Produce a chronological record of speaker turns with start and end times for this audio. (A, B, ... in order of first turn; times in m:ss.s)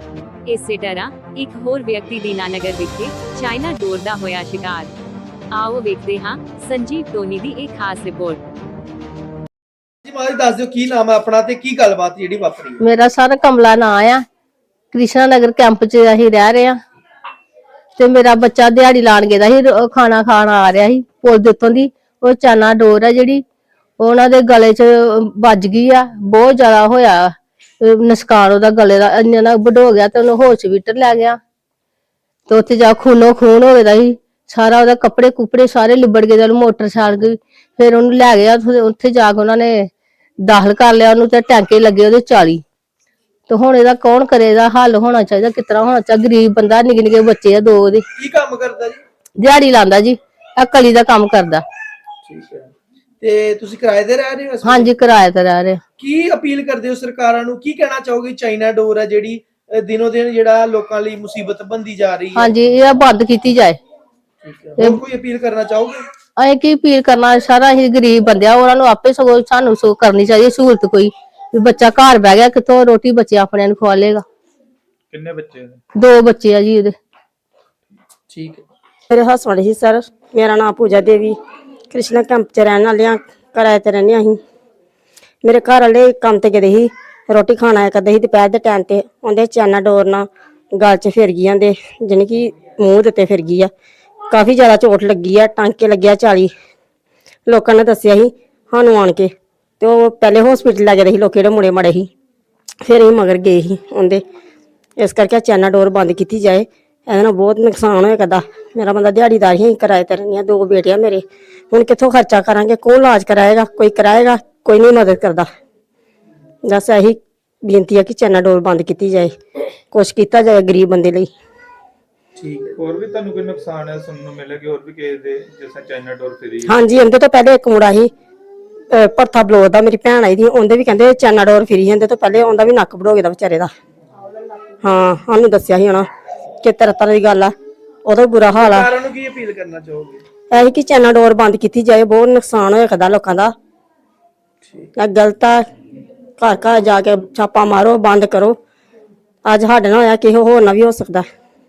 0:00.5-0:04.9 A
0:05.5-0:08.4 A
0:10.0-0:12.8 B
0:12.8-0:14.2 C
0:14.9-0:16.8 C
0:18.0-0:23.4 C
0:24.0-0:31.4 C
0:32.5-0:39.9 C
0:40.4-0:42.6 C
0:43.5-0:48.0 C
0:48.2-0:49.0 B
0:49.4-0:51.6 C
0:52.2-0:54.9 B
0:54.6-0:55.8 C
0:56.0-1:02.5 B
1:02.4-1:03.8 C
1:04.4-1:06.0 B
1:06.4-1:14.2 C
1:15.1-1:15.8 D
1:15.9-1:16.9 C
1:18.3-1:18.6 B
1:19.1-1:21.4 E
1:21.9-1:24.4 E
1:25.4-1:33.7 E
1:34.3-1:36.5 E
1:37.5-1:42.1 E
1:42.8-1:44.2 E
1:45.0-1:55.5 E
1:56.6-1:59.4 E
1:59.9-2:01.3 E
2:02.4-2:02.8 B
2:02.8-2:06.9 D
2:06.6-2:08.1 E
2:08.9-2:13.7 E
2:14.8-2:16.1 E
2:16.6-2:18.9 E
2:18.5-2:20.2 B
2:20.5-2:23.5 E
2:24.6-2:24.9 B
2:25.0-2:25.6 E
2:26.4-2:28.6 E
2:29.4-2:31.2 E